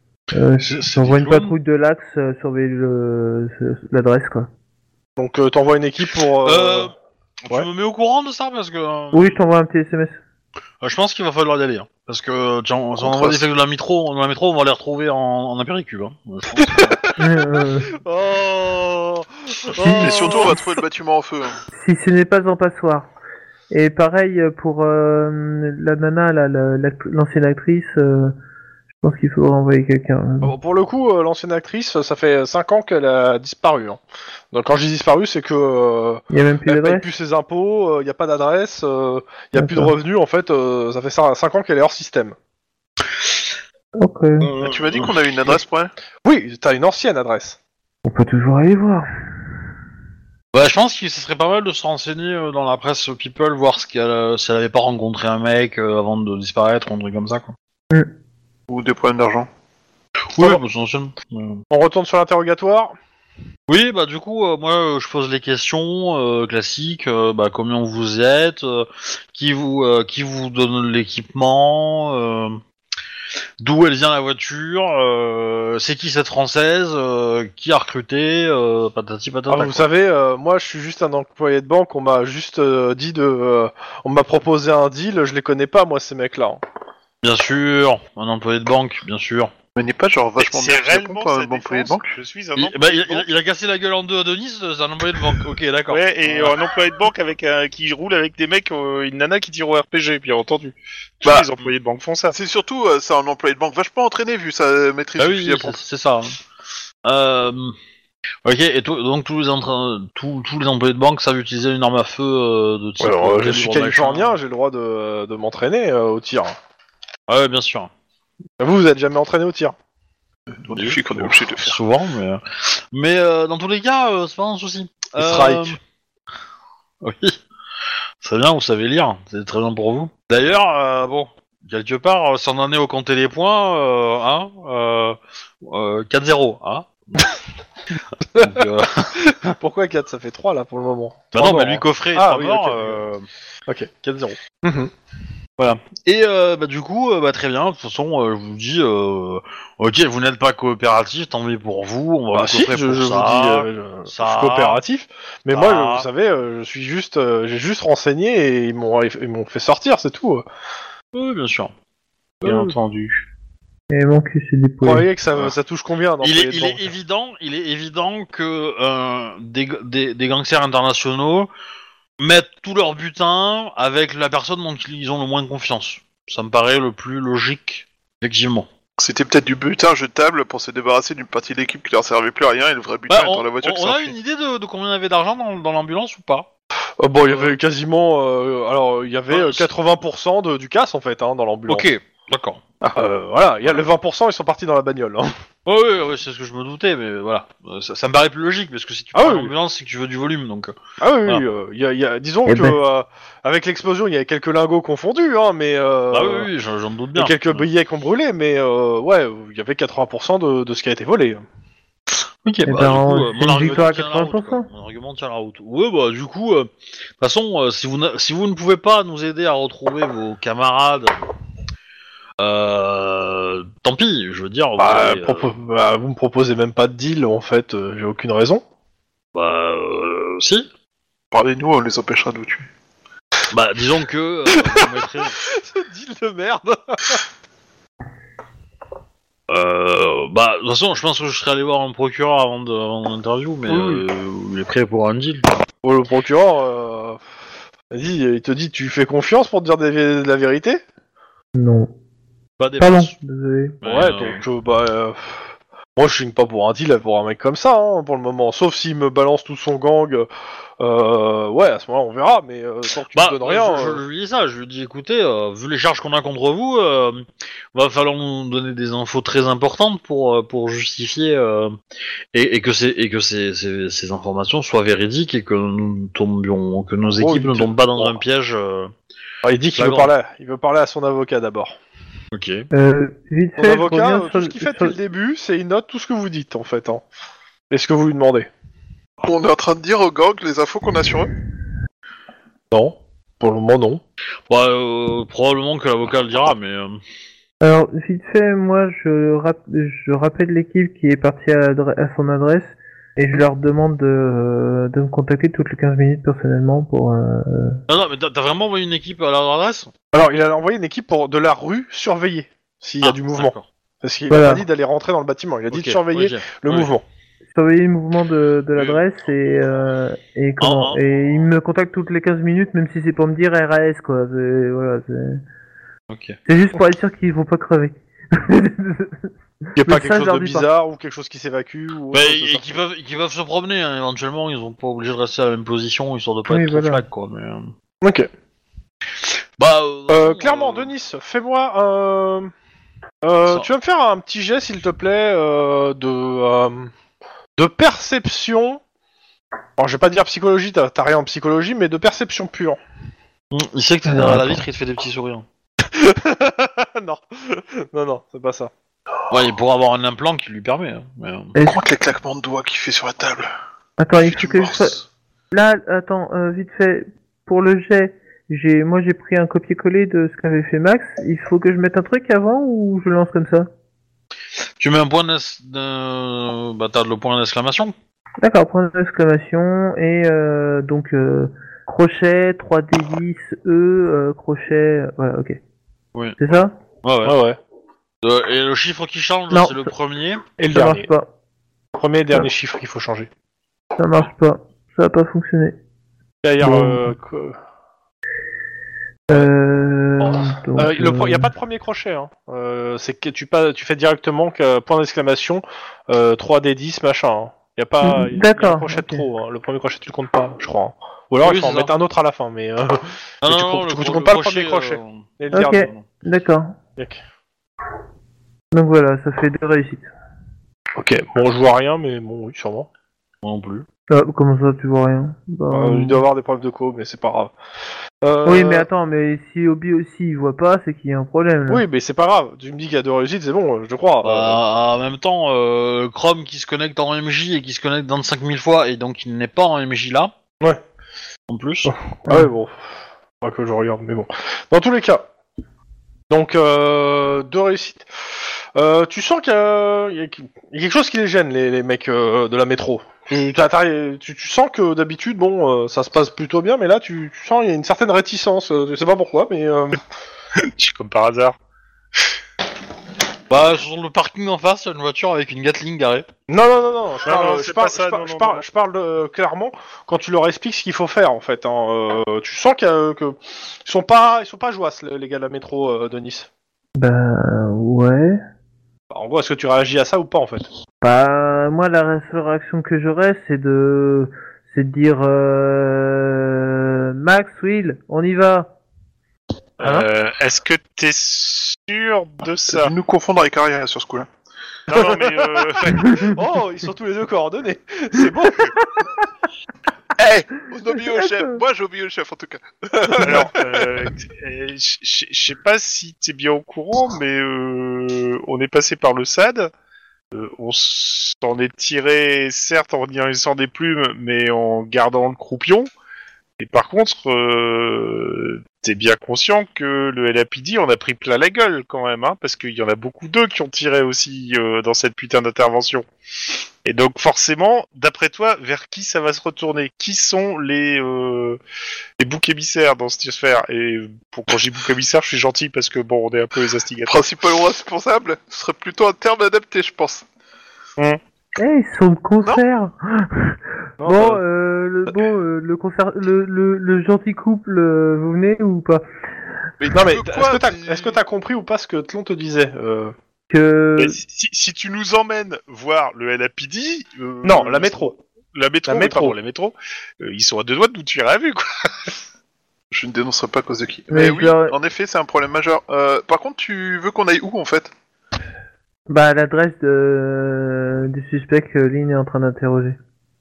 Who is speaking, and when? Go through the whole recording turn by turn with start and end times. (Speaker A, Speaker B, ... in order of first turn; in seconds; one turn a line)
Speaker A: 0.3-4.5
Speaker B: 0.6-1.5
Speaker C: 5.2-6.9
Speaker B: 6.4-6.9
Speaker B: 7.5-9.4
Speaker A: 9.1-10.2
Speaker B: 10.8-17.1
Speaker D: 13.0-13.4
Speaker C: 16.6-17.0
Speaker A: 17.2-17.9
Speaker C: 17.9-20.6
Speaker A: 19.8-20.5
Speaker D: 19.9-21.6
Speaker A: 21.7-23.1
Speaker A: 23.7-28.4
Speaker A: 29.0-30.6
Speaker C: 30.4-34.0
Speaker C: 34.5-42.4
Speaker A: 36.3-37.1
Speaker A: 39.6-39.9
Speaker A: 44.0-44.5
Speaker B: 44.5-45.2
Speaker D: 44.6-45.9
Speaker C: 46.2-47.6
Speaker A: 48.0-49.1
Speaker B: 50.5-57.5
Speaker D: 58.7-59.5
Speaker B: 60.3-61.6
Speaker C: 60.4-60.6
Speaker C: 61.7-63.0
Speaker B: 63.7-72.6
Speaker B: 73.6-79.8
Speaker C: 79.5-86.6
Speaker B: 87.2-89.5
Speaker D: 89.8-92.2
Speaker E: 90.4-93.3
Speaker B: 92.6-96.6
Speaker E: 95.9-102.3
Speaker D: 102.3-105.8
Speaker B: 105.2-106.4
Speaker B: 107.0-107.8
Speaker B: 108.4-114.4
Speaker C: 113.0-116.5
Speaker B: 117.3-117.9
Speaker C: 118.6-119.8
Speaker D: 120.5-121.8
Speaker B: 120.7-125.8
Speaker C: 125.2-125.8
Speaker B: 127.0-127.4
Speaker B: 128.2-137.3
Speaker B: 138.3-139.6
Speaker C: 138.3-138.6
Speaker C: 139.2-143.0
Speaker B: 141.3-143.3
Speaker C: 143.7-144.9
Speaker B: 145.6-154.8
Speaker C: 152.3-160.4
Speaker B: 155.5-156.1
Speaker B: 161.1-161.7
Speaker B: 162.4-162.8
Speaker E: 162.4-163.2
Speaker A: 163.9-165.1
Speaker C: 164.8-166.9
Speaker B: 166.2-171.5
Speaker B: 172.2-178.7
Speaker D: 179.0-184.2
Speaker B: 183.1-186.5
Speaker C: 187.0-191.9
Speaker B: 187.3-187.6
Speaker B: 189.3-189.7
Speaker B: 191.7-192.9
Speaker C: 192.9-195.3
Speaker B: 195.7-200.8
Speaker C: 199.1-199.5
Speaker C: 201.0-206.5
Speaker A: 202.5-202.8
Speaker B: 206.1-207.7
Speaker C: 207.2-211.4
Speaker B: 212.4-221.2
Speaker A: 212.7-214.7
Speaker C: 213.6-213.9
Speaker B: 222.4-225.5
Speaker C: 224.8-228.6
Speaker B: 229.3-230.7
Speaker D: 231.3-232.7
Speaker B: 233.5-235.4
Speaker C: 234.5-237.2
Speaker B: 239.5-245.6
Speaker C: 243.7-244.1
Speaker C: 245.8-247.3
Speaker C: 247.9-250.8
Speaker A: 251.6-251.9
Speaker B: 252.6-253.1
Speaker A: 252.8-253.8
Speaker B: 253.8-254.4
Speaker C: 253.8-260.3
Speaker C: 260.8-264.0
Speaker B: 263.1-271.7
Speaker B: 272.3-278.9
Speaker C: 277.1-278.2
Speaker C: 279.4-281.8
Speaker B: 279.8-280.1
Speaker B: 282.3-282.7
Speaker A: 282.7-285.0
Speaker C: 283.6-287.1
Speaker C: 287.7-288.5
Speaker D: 289.2-291.3
Speaker C: 292.7-294.0
Speaker B: 294.5-297.0
Speaker A: 297.6-307.8
Speaker B: 307.9-309.9
Speaker C: 310.1-317.0
Speaker B: 313.0-313.6
Speaker A: 314.3-314.6
Speaker B: 315.7-316.9
Speaker A: 317.5-325.4
Speaker B: 320.6-321.0
Speaker B: 326.1-326.4
Speaker A: 326.5-329.2
Speaker A: 329.8-330.7
Speaker C: 329.8-332.8
Speaker B: 332.1-337.7
Speaker A: 336.5-337.1
Speaker C: 338.0-338.3
Speaker B: 339.6-340.9
Speaker C: 340.1-342.5
Speaker C: 343.2-346.9
Speaker C: 347.6-348.8
Speaker C: 349.8-352.8
Speaker B: 353.5-355.4
Speaker A: 354.1-354.6
Speaker C: 355.8-358.7
Speaker B: 359.3-361.6
Speaker A: 361.6-361.8
Speaker D: 361.6-363.5
Speaker A: 364.0-365.0
Speaker D: 364.2-365.1
Speaker A: 365.5-373.7
Speaker B: 374.8-377.9
Speaker A: 378.4-385.6
Speaker B: 386.1-386.5
Speaker A: 386.4-386.7
Speaker B: 387.0-387.4
Speaker C: 387.2-387.6
Speaker B: 388.2-390.4
Speaker A: 389.5-389.9
Speaker C: 390.6-391.1
Speaker A: 390.7-391.3
Speaker C: 391.9-393.3
Speaker A: 394.0-395.8
Speaker C: 396.4-397.6
Speaker A: 396.6-397.1
Speaker A: 399.3-401.5
Speaker C: 400.2-415.9
Speaker A: 408.0-409.2
Speaker B: 411.4-411.9
Speaker B: 413.4-416.0
Speaker A: 415.5-416.8
Speaker A: 418.7-420.1
Speaker C: 421.0-422.9
Speaker B: 423.4-423.9
Speaker A: 424.1-426.2
Speaker C: 425.7-427.5
Speaker C: 428.2-428.9
Speaker A: 428.4-431.8
Speaker C: 431.7-434.6
Speaker B: 434.2-440.3
Speaker B: 441.5-441.9
Speaker C: 441.9-442.9
Speaker C: 443.4-445.2
Speaker C: 446.3-448.1
Speaker C: 448.8-460.0
Speaker E: 460.6-461.6
Speaker B: 463.5-466.3
Speaker C: 466.5-476.5
Speaker E: 467.2-468.6
Speaker A: 477.0-478.4
Speaker C: 479.1-480.7
Speaker A: 481.0-488.7
Speaker E: 489.8-492.9
Speaker D: 492.7-494.3
Speaker E: 494.9-496.4
Speaker C: 494.9-495.6
Speaker C: 496.2-498.7
Speaker D: 500.2-503.6
Speaker C: 503.1-503.5
Speaker E: 503.2-509.7
Speaker E: 510.3-515.9
Speaker E: 516.6-526.1
Speaker E: 526.8-531.6
Speaker E: 532.2-537.2
Speaker D: 537.0-540.2
Speaker A: 541.6-549.0
Speaker C: 544.0-544.4
Speaker D: 549.8-551.2
Speaker C: 549.9-553.1
Speaker A: 553.5-554.2
Speaker E: 554.0-562.1
Speaker C: 557.4-558.2
Speaker C: 558.9-559.4
Speaker D: 562.9-567.9
Speaker A: 564.1-564.8
Speaker A: 569.1-573.0